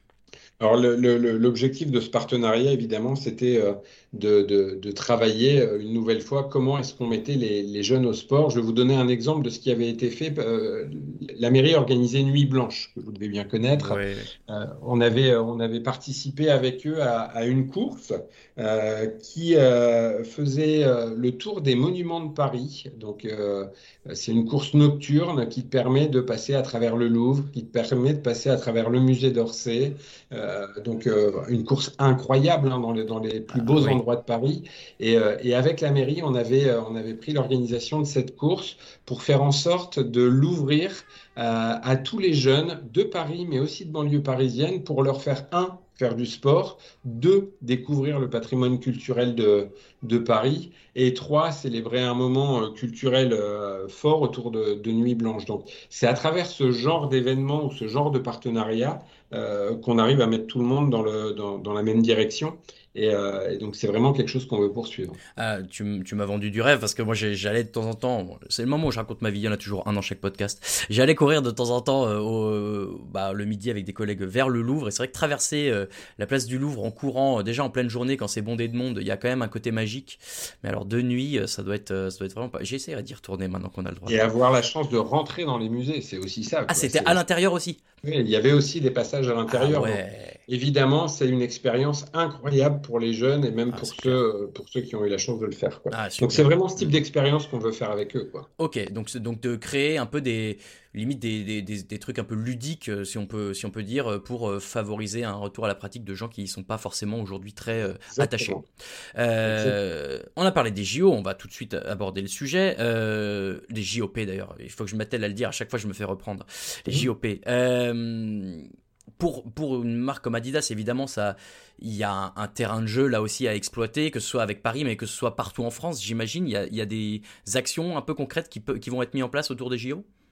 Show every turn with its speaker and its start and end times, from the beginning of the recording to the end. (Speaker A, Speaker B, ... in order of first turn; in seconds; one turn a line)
Speaker A: 0.6-65.2
Speaker B: 13.8-14.3
Speaker B: 33.5-34.0
Speaker B: 65.3-84.2
Speaker A: 84.1-87.2
Speaker B: 86.7-87.8
Speaker A: 88.0-98.5
Speaker B: 89.5-90.4
Speaker B: 93.7-94.2
Speaker B: 95.9-96.9
Speaker B: 98.6-108.6
Speaker A: 107.9-108.6
Speaker B: 109.2-130.0
Speaker A: 109.4-109.8